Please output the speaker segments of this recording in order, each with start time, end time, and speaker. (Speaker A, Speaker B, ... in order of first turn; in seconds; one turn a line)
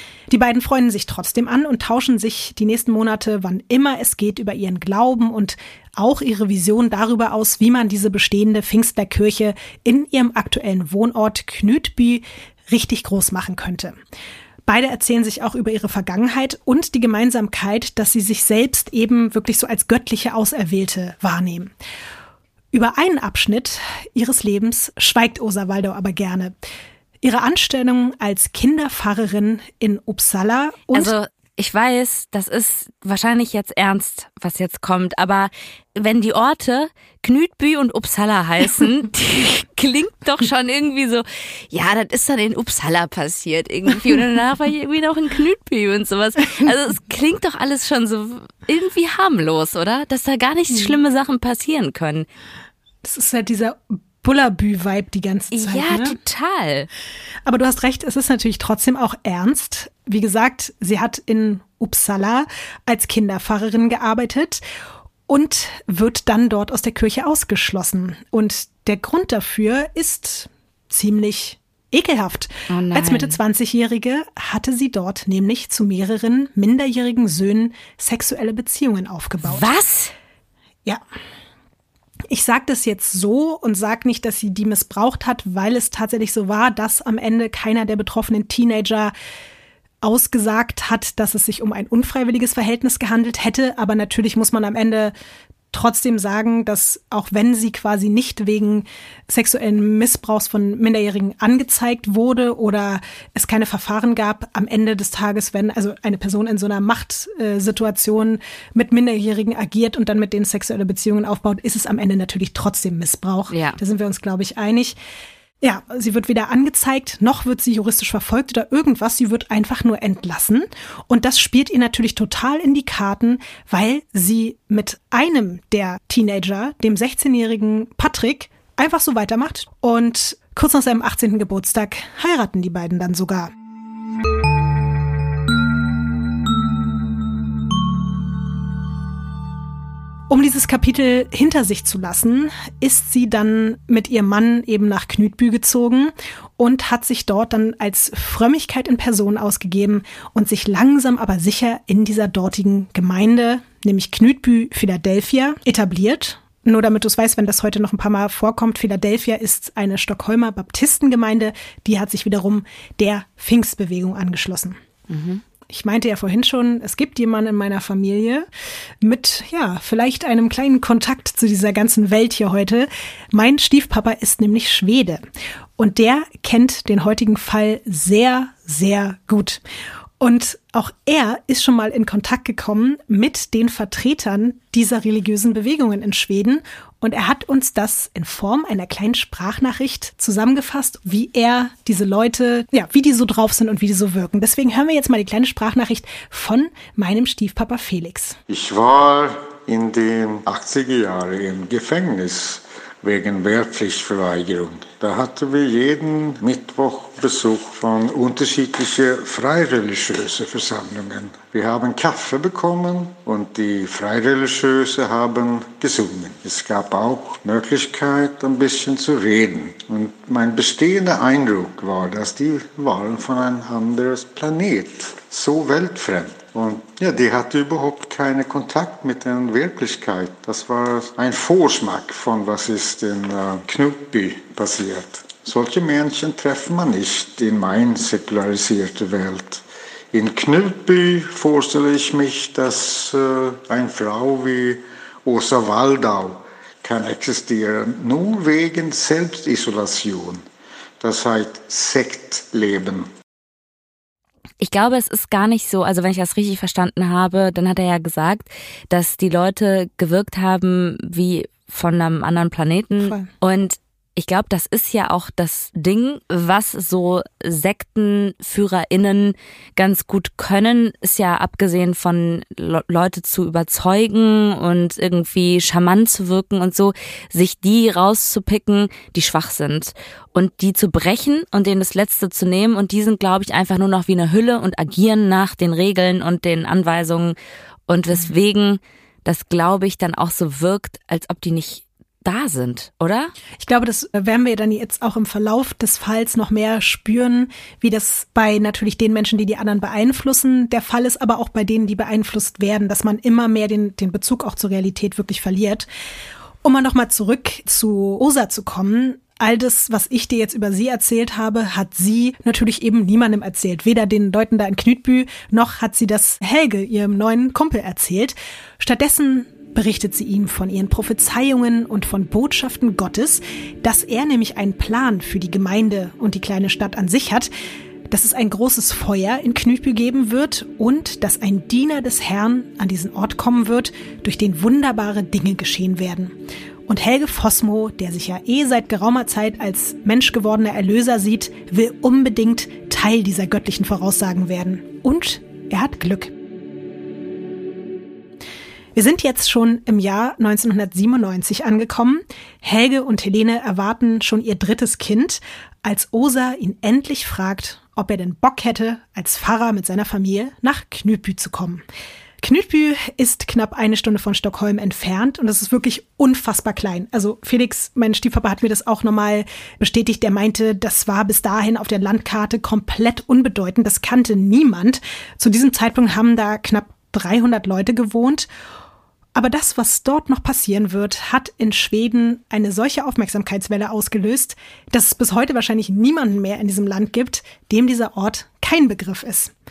Speaker A: 0.3-14.0
Speaker A: 14.7-21.7
Speaker A: 22.7-26.6
Speaker A: 27.2-31.1
Speaker B: 30.9-52.3
Speaker A: 53.0-56.2
Speaker B: 55.5-56.9
Speaker A: 57.5-64.6
Speaker A: 65.3-79.7
Speaker B: 72.7-73.4
Speaker B: 79.4-80.1
Speaker A: 82.3-89.1
Speaker A: 90.0-95.1
Speaker A: 95.7-115.0
Speaker B: 113.5-113.8
Speaker A: 115.6-133.5
Speaker A: 140.3-164.8
Speaker B: 165.1-165.4
Speaker A: 165.7-168.5
Speaker A: 169.0-175.2
Speaker A: 175.8-179.6
Speaker A: 180.2-198.4
Speaker C: 198.5-250.4
Speaker C: 251.0-253.1
Speaker B: 254.6-287.4
Speaker A: 263.0-263.3
Speaker B: 287.9-293.3
Speaker A: 293.6-305.9
Speaker A: 306.6-327.5
Speaker A: 328.1-336.4
Speaker A: 336.9-346.3
Speaker A: 348.9-361.9
Speaker A: 362.4-378.5
Speaker A: 379.4-389.5